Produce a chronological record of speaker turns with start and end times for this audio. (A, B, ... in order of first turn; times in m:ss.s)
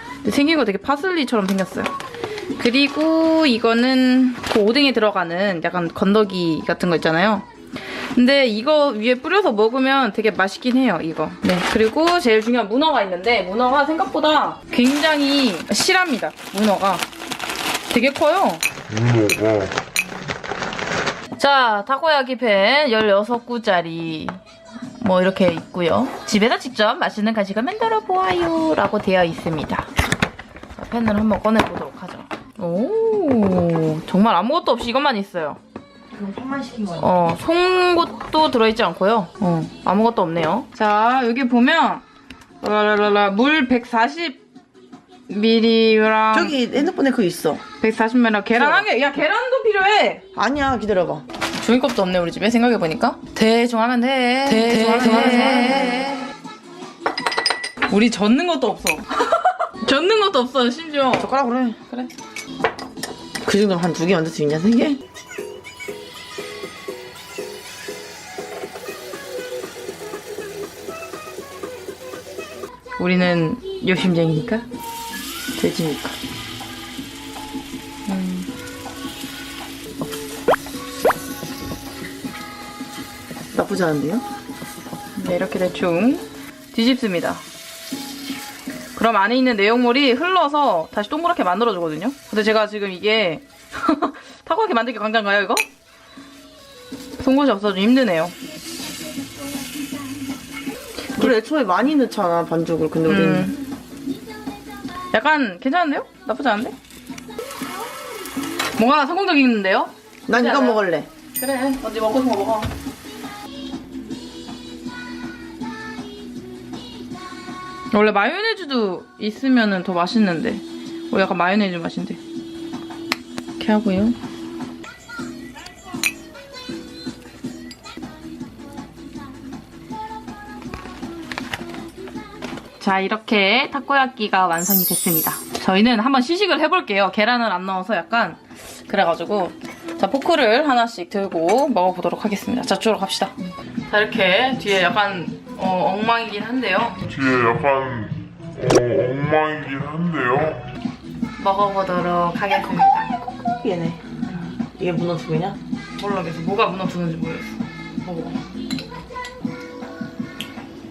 0:00.2-0:01.9 A
0:02.6-0:07.4 A
0:08.0-0:17.0 A
0:17.9-0:18.6 A
0:18.9-0:19.7 B
0:21.4-0:24.4 A
0:25.0-0:29.9 A
0:30.8-0:35.6 A
0:36.1-0:37.1 C
0:37.0-0:42.0 A
0:42.6-0:44.4 A
0:45.3-0:46.6 A
0:46.3-0:47.6 C
0:47.8-0:50.2 A
0:48.5-0:48.9 C
0:50.3-0:51.2 C
0:51.6-0:56.2 A
0:54.5-0:56.1 C
0:57.8-1:01.3 A
1:01.2-1:01.8 C
1:03.4-1:05.0 C
1:13.0-1:14.6 A
1:15.6-1:16.1 C
1:18.1-1:18.5 A
1:23.5-1:24.2 C
1:25.1-1:27.4 A
1:29.0-1:35.6 A
1:37.2-1:38.3 A
1:41.1-1:43.6 C
1:43.0-1:43.6 A
1:45.1-1:46.7 A
1:48.8-1:50.8 A
1:50.3-1:51.1 C
1:51.3-1:52.7 A
1:57.9-2:02.2 A
2:03.6-2:04.2 A
2:12.8-2:23.4 A
2:23.9-2:27.1 A
2:27.0-2:30.6 B
2:31.4-2:33.1 A
2:33.4-2:34.0 C
2:34.3-2:34.5 A
2:34.7-2:35.6 C
2:36.0-2:38.4 A